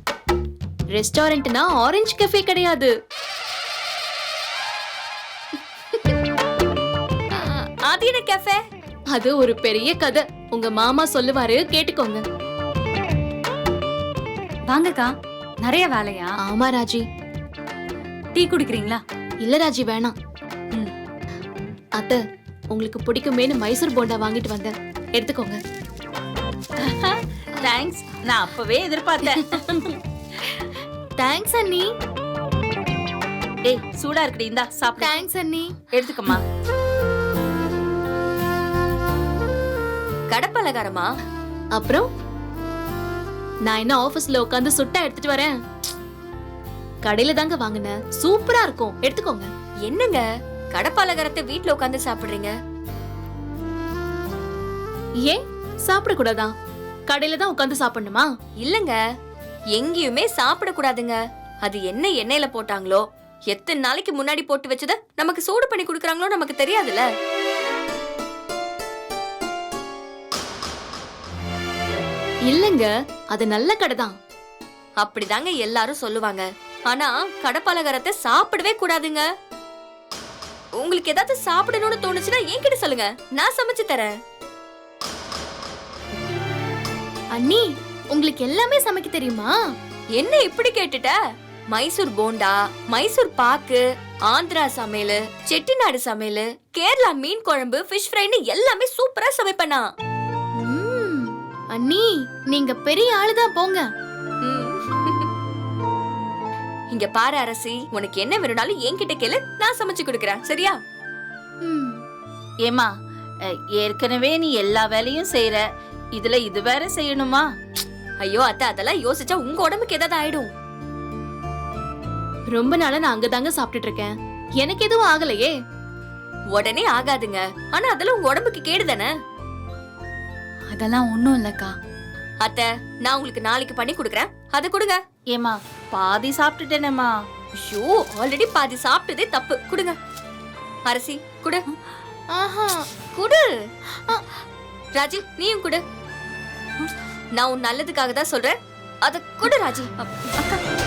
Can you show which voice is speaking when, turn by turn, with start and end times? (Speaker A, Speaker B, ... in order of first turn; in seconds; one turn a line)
Speaker A: 0.9-2.9
Speaker B: 7.3-8.6
Speaker A: 9.1-12.2
Speaker C: 14.7-15.1
Speaker C: 15.6-16.3
Speaker A: 16.4-17.0
Speaker C: 18.3-19.0
Speaker A: 19.4-20.1
Speaker A: 22.0-25.6
Speaker D: 26.8-29.9
Speaker A: 31.2-31.9
Speaker D: 33.6-35.1
Speaker A: 35.0-35.8
Speaker D: 35.9-36.4
Speaker B: 40.3-41.1
Speaker A: 41.7-42.1
Speaker A: 43.6-45.5
Speaker A: 47.0-49.5
Speaker B: 49.9-52.5
Speaker A: 55.2-56.5
Speaker A: 57.1-58.2
Speaker B: 58.6-59.0
Speaker B: 59.8-67.0
Speaker A: 72.5-74.2
Speaker B: 75.0-79.2
Speaker B: 80.8-84.1
Speaker A: 87.3-89.5
Speaker B: 90.2-91.1
Speaker B: 91.7-99.8
Speaker A: 100.6-103.8
Speaker B: 104.4-105.3
Speaker B: 106.9-110.8
Speaker A: 111.6-112.0
Speaker D: 112.6-112.9
Speaker D: 113.5-115.6
Speaker D: 116.1-117.5
Speaker B: 118.2-120.5
Speaker A: 122.5-125.5
Speaker B: 126.5-129.1
Speaker C: 130.7-131.7
Speaker B: 132.4-135.0
Speaker D: 135.3-137.1
Speaker B: 137.6-140.0
Speaker B: 140.9-141.6
Speaker A: 142.3-142.8
Speaker B: 143.1-143.5
Speaker B: 144.9-145.8
Speaker B: 147.4-149.9